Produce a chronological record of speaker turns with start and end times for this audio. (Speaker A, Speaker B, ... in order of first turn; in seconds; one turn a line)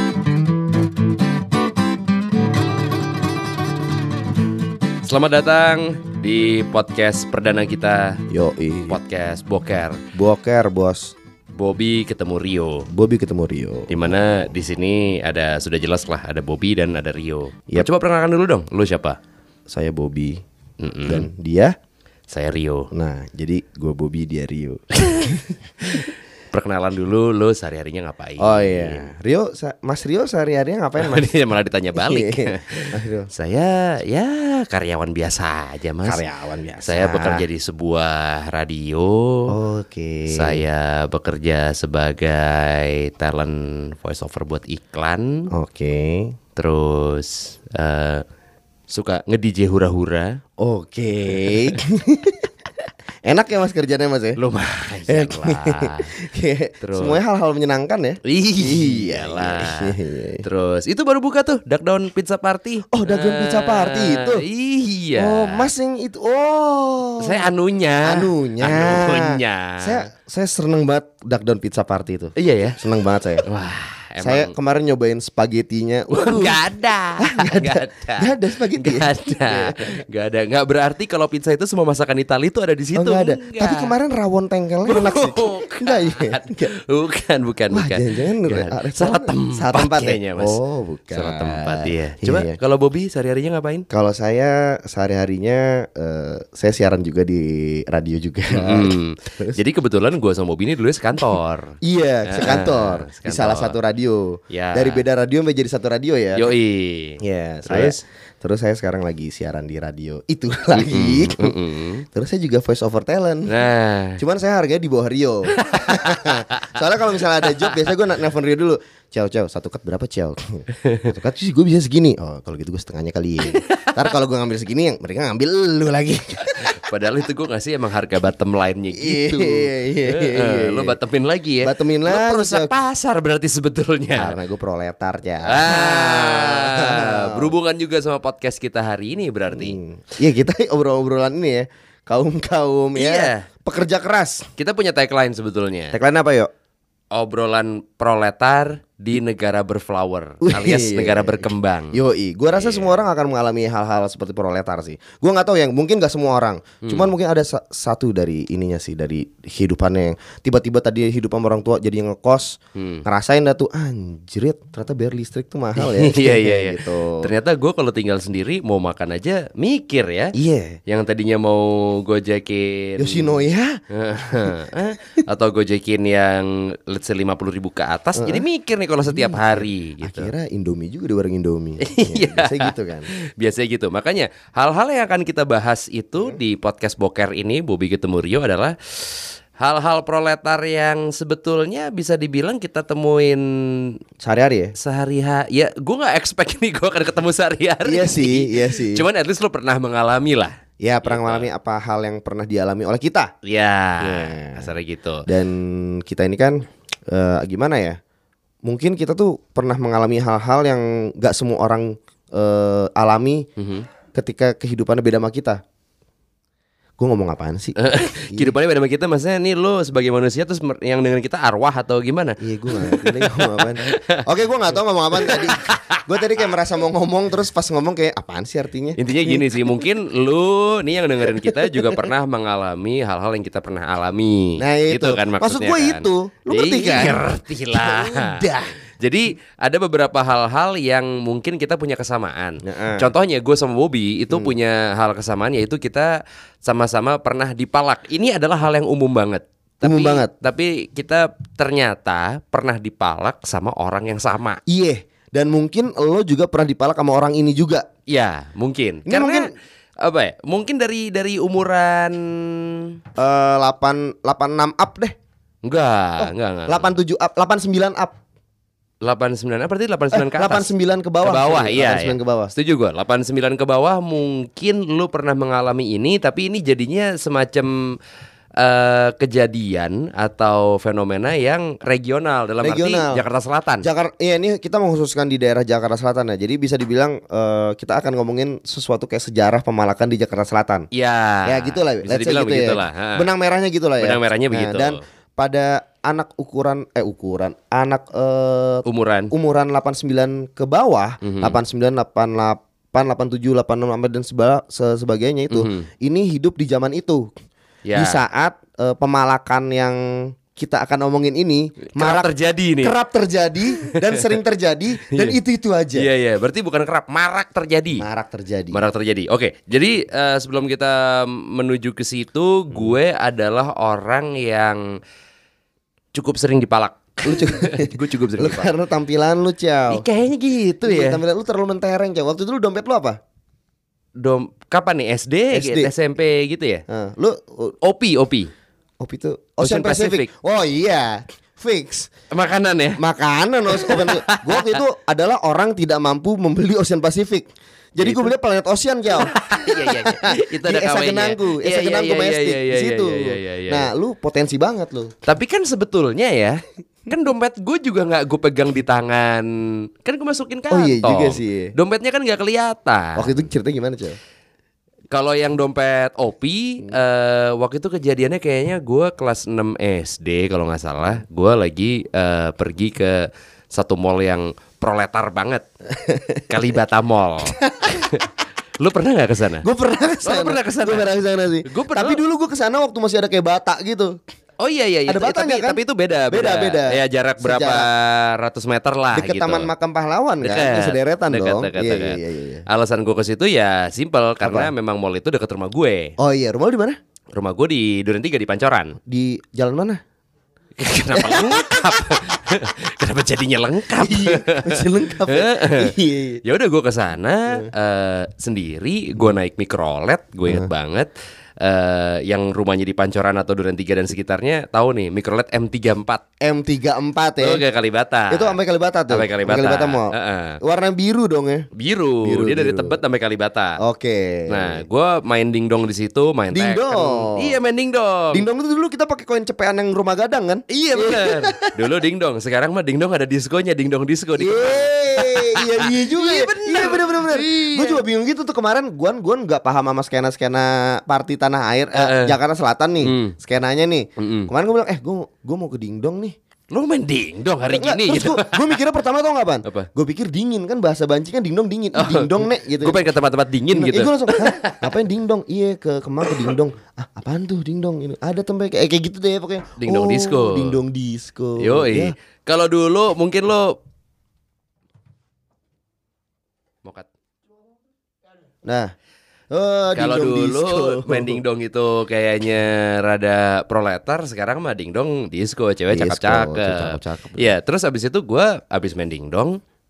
Speaker A: 5.0-8.2
Speaker B: 8.3-9.0
Speaker A: 8.9-10.0
Speaker B: 10.1-11.1
Speaker A: 11.5-12.9
Speaker B: 12.9-13.9
Speaker A: 13.9-19.2
Speaker B: 19.7-20.4
Speaker A: 20.8-21.3
Speaker B: 21.1-21.7
Speaker A: 22.3-22.9
Speaker B: 22.9-25.5
Speaker A: 25.0-29.1
Speaker B: 28.4-31.3
Speaker A: 31.0-36.2
Speaker B: 31.9-33.3
Speaker B: 36.0-37.4
Speaker A: 36.8-39.5
Speaker B: 39.5-40.6
Speaker A: 40.3-45.5
Speaker B: 45.5-46.3
Speaker A: 46.5-48.2
Speaker A: 48.9-50.4
Speaker B: 50.6-52.5
Speaker A: 51.4-51.7
Speaker B: 53.2-54.4
Speaker A: 54.4-56.1
Speaker B: 55.1-60.4
Speaker A: 56.8-57.2
Speaker A: 58.2-65.7
Speaker B: 62.9-64.4
Speaker B: 65.2-67.5
Speaker A: 67.2-70.1
Speaker B: 68.0-73.4
Speaker A: 72.3-72.8
Speaker A: 73.4-74.5
Speaker B: 74.2-76.6
Speaker A: 76.1-83.9
Speaker B: 77.2-80.0
Speaker B: 82.9-86.7
Speaker A: 84.8-90.6
Speaker B: 87.7-92.5
Speaker A: 91.1-93.8
Speaker B: 93.9-99.6
Speaker A: 98.5-103.8
Speaker B: 101.8-106.4
Speaker A: 104.5-105.0
Speaker A: 106.3-108.0
Speaker B: 107.2-111.5
Speaker A: 110.7-112.0
Speaker B: 112.1-113.5
Speaker A: 113.5-114.2
Speaker B: 114.2-126.8
Speaker A: 115.6-116.7
Speaker A: 117.4-117.9
Speaker A: 123.5-124.0
Speaker A: 126.5-134.3
Speaker B: 128.9-130.9
Speaker B: 131.6-132.7
Speaker B: 134.2-137.5
Speaker A: 135.4-139.8
Speaker B: 139.5-144.5
Speaker A: 142.9-143.5
Speaker A: 144.6-146.0
Speaker B: 145.9-146.5
Speaker A: 147.1-152.0
Speaker B: 150.4-167.3
Speaker A: 152.5-153.0
Speaker A: 156.8-157.1
Speaker A: 162.8-163.0
Speaker A: 165.8-170.3
Speaker B: 170.3-170.8
Speaker A: 170.9-180.3
Speaker B: 173.0-173.8
Speaker B: 178.2-178.4
Speaker B: 179.1-183.1
Speaker A: 181.8-194.0
Speaker B: 194.2-194.7
Speaker A: 194.8-201.4
Speaker B: 197.8-199.0
Speaker B: 200.8-203.3
Speaker A: 203.4-205.2
Speaker B: 204.0-204.6
Speaker B: 205.3-208.0
Speaker B: 208.6-213.5
Speaker A: 213.6-213.9
Speaker B: 214.1-215.6
Speaker B: 217.0-218.5
Speaker A: 217.8-224.2
Speaker B: 222.4-229.4
Speaker A: 225.1-226.1
Speaker A: 229.0-254.6
Speaker B: 231.2-232.0
Speaker B: 234.6-238.7
Speaker B: 242.6-243.1
Speaker B: 249.8-250.3
Speaker B: 254.7-257.9
Speaker A: 258.1-259.5
Speaker B: 259.1-259.5
Speaker A: 260.0-262.9
Speaker B: 263.2-265.1
Speaker A: 265.6-266.9
Speaker B: 266.2-268.2
Speaker A: 269.0-270.7
Speaker B: 270.1-272.5
Speaker A: 271.2-277.9
Speaker A: 278.6-283.9
Speaker B: 282.6-283.2
Speaker B: 283.8-290.9
Speaker A: 290.9-293.3
Speaker B: 291.4-307.3
Speaker A: 294.0-295.0
Speaker A: 298.9-299.3
Speaker A: 301.2-301.6
Speaker A: 305.5-305.9
Speaker A: 307.8-308.2
Speaker B: 307.9-312.3
Speaker A: 311.9-312.9
Speaker B: 312.8-316.1
Speaker A: 313.8-314.2
Speaker A: 315.0-315.4
Speaker A: 315.9-318.0
Speaker B: 318.0-318.8
Speaker A: 318.7-325.0
Speaker A: 326.1-328.7
Speaker B: 327.2-330.1
Speaker A: 329.9-331.2
Speaker B: 330.8-333.2
Speaker A: 334.2-336.8
Speaker B: 335.5-335.9
Speaker B: 336.9-337.7
Speaker A: 337.8-338.5
Speaker B: 339.0-342.1
Speaker A: 339.6-340.3
Speaker A: 342.3-343.0
Speaker B: 343.0-355.1
Speaker A: 343.7-344.8
Speaker A: 348.0-348.3
Speaker A: 349.1-353.9
Speaker A: 355.2-359.5
Speaker A: 360.0-363.4
Speaker B: 360.7-361.7
Speaker B: 363.2-364.2
Speaker A: 365.1-375.7
Speaker B: 375.9-376.4
Speaker A: 376.5-378.3
Speaker B: 377.5-378.1
Speaker A: 378.8-379.6
Speaker B: 379.6-384.2
Speaker A: 380.2-381.1
Speaker A: 381.6-382.2
Speaker A: 384.6-389.7
Speaker B: 385.1-385.8
Speaker B: 386.3-387.9
Speaker B: 389.1-392.6
Speaker A: 390.4-396.1
Speaker B: 394.4-394.7
Speaker B: 396.2-397.0
Speaker A: 397.3-399.0
Speaker B: 399.1-400.0
Speaker A: 400.8-405.9
Speaker B: 401.1-402.1
Speaker B: 404.0-406.4
Speaker A: 406.4-416.2
Speaker B: 416.4-417.6
Speaker A: 417.4-418.6
Speaker B: 418.3-421.7
Speaker A: 419.1-420.6
Speaker A: 421.7-423.8
Speaker B: 422.2-423.0
Speaker B: 423.8-424.8
Speaker A: 424.5-428.4
Speaker B: 426.5-427.5
Speaker B: 428.3-431.7
Speaker A: 430.7-438.0
Speaker B: 434.4-446.4
Speaker A: 441.9-442.4
Speaker A: 443.0-443.3
Speaker A: 444.2-444.5
Speaker A: 446.7-448.8
Speaker B: 447.7-453.0
Speaker A: 451.9-454.9
Speaker B: 453.7-462.1
Speaker A: 459.8-460.8
Speaker A: 461.6-463.8
Speaker B: 468.6-468.9
Speaker B: 469.5-471.4
Speaker A: 469.9-479.6
Speaker B: 475.9-477.5